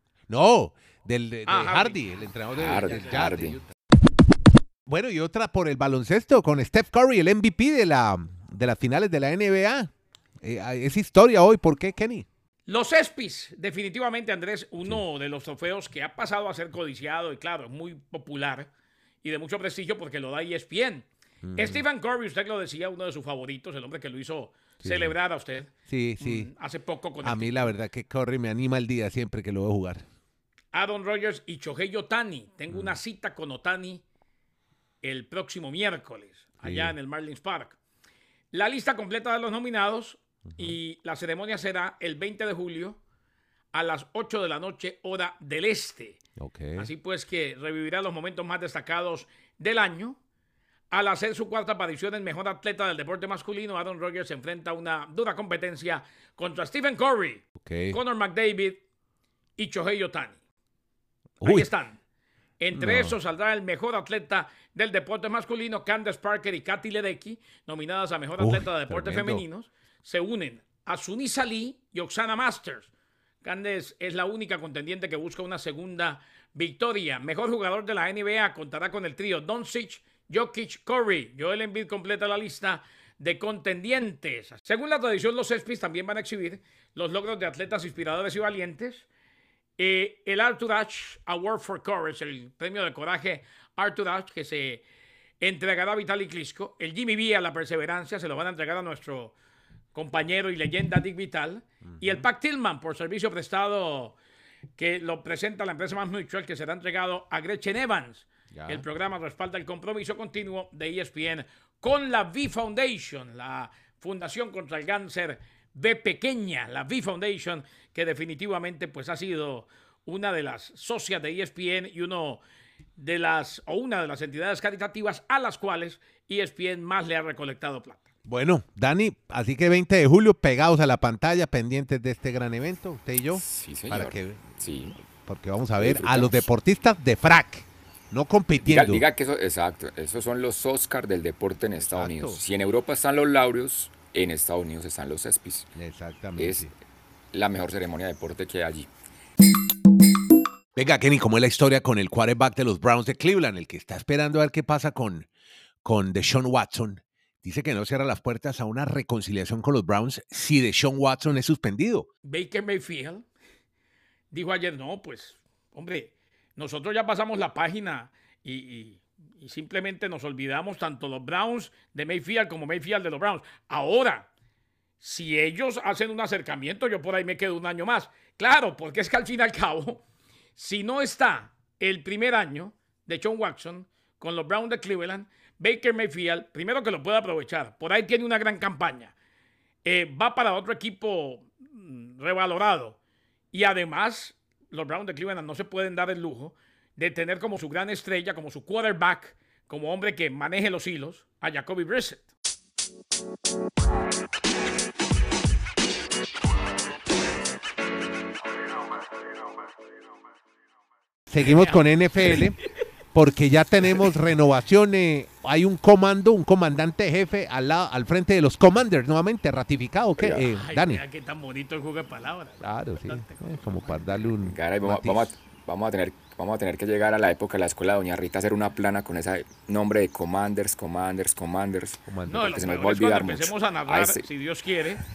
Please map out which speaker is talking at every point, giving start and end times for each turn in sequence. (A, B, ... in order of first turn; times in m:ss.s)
0:00.3-0:03.7 A
0:01.5-0:02.0 B
0:02.5-0:03.6 C
0:02.9-0:03.2 B
0:04.9-0:12.3 A
0:12.7-0:18.7 B
0:19.2-0:27.7 B
0:21.4-0:21.8 A
0:24.8-0:25.2 A
0:25.9-0:26.5 A
0:27.2-0:30.1 A
0:30.7-0:34.0 B
0:32.7-0:33.0 A
0:35.0-0:37.8 B
0:36.6-0:37.0 A
0:38.5-0:43.0 B
0:40.5-0:40.8 A
0:43.7-0:46.2 B
0:46.4-0:46.9 A
0:46.8-0:50.2 B
0:50.9-0:58.8 B
0:57.6-0:58.0 A
0:59.6-1:00.4 B
1:01.4-1:01.7 A
1:01.4-1:02.0 B
1:02.6-1:12.9 B
1:02.7-1:03.2 A
1:08.4-1:09.4 A
1:13.4-1:29.1 B
1:29.8-1:34.8 B
1:35.4-1:39.4 B
1:39.9-1:44.2 B
1:41.8-1:42.2 A
1:44.8-2:02.4 B
1:48.5-1:48.8 A
2:03.0-2:08.1 B
2:08.3-2:19.0 A
2:13.4-2:15.0 C
2:15.8-2:16.5 C
2:18.6-2:25.7 C
2:21.9-2:22.4 A
2:25.8-2:26.7 A
2:26.4-2:26.7 C
2:27.3-2:28.9 C
2:30.8-2:35.3 A
2:35.8-2:42.1 A
2:42.2-2:43.3 B
2:44.3-2:54.3 B
2:55.0-3:00.0 B
3:00.6-3:09.1 B
3:09.8-3:13.0 B
3:13.5-3:22.3 B
3:31.3-3:32.6 A
3:31.4-3:32.3 B
3:33.1-3:41.0 A
3:40.2-3:40.4 C
3:40.5-3:44.0 B
3:42.6-3:45.3 A
3:44.4-3:54.3 C
3:52.1-3:52.6 A
3:52.3-3:55.0 B